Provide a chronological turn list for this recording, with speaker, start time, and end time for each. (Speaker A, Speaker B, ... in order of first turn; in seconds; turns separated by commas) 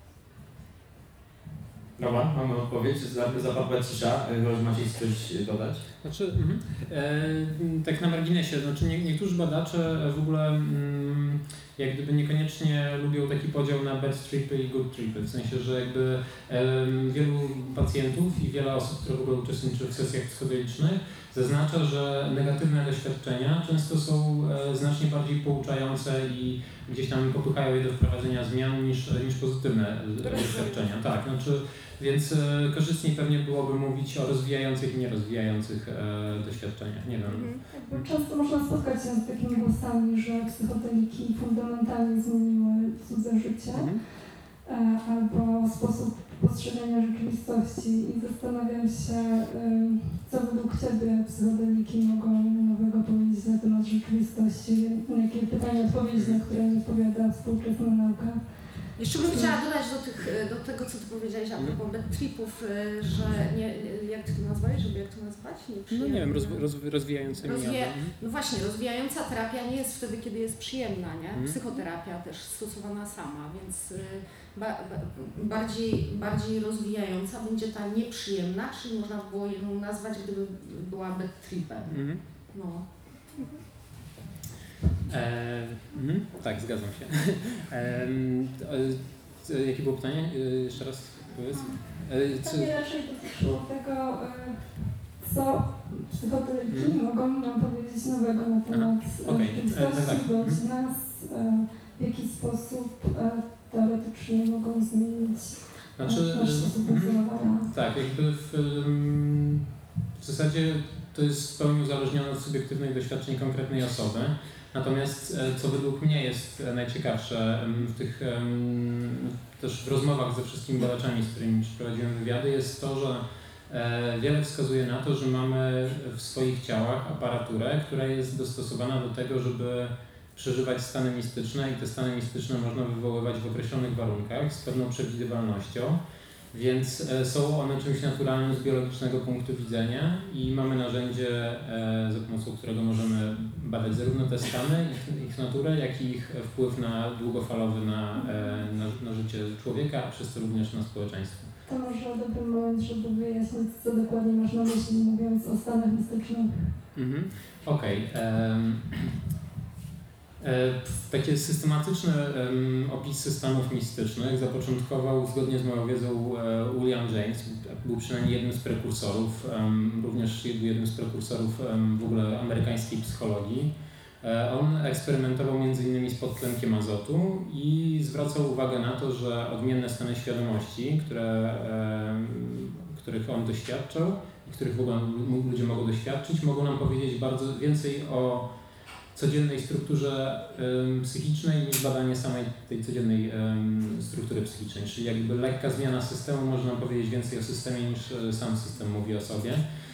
Speaker A: 2.0-5.8, Speaker B: 6.0-38.1, Speaker C: 30.2-30.9, Speaker C: 37.3-37.6, Speaker D: 37.7-44.0, Speaker B: 43.7-44.0, Speaker D: 44.6-58.6, Speaker C: 55.6-55.9, Speaker B: 56.1-56.4, Speaker C: 59.0-66.6, Speaker B: 59.3-59.6, Speaker B: 65.9-68.1, Speaker C: 67.4-82.0, Speaker B: 81.9-82.2, Speaker C: 82.5-82.8, Speaker B: 85.1-92.7, Speaker D: 92.4-107.7, Speaker B: 96.7-97.0, Speaker B: 98.7-100.6, Speaker B: 106.0-136.0, Speaker B: 136.5-151.5, Speaker D: 151.7-156.8, Speaker B: 156.9-159.2, Speaker B: 160.4-188.5, Speaker B: 189.1-199.6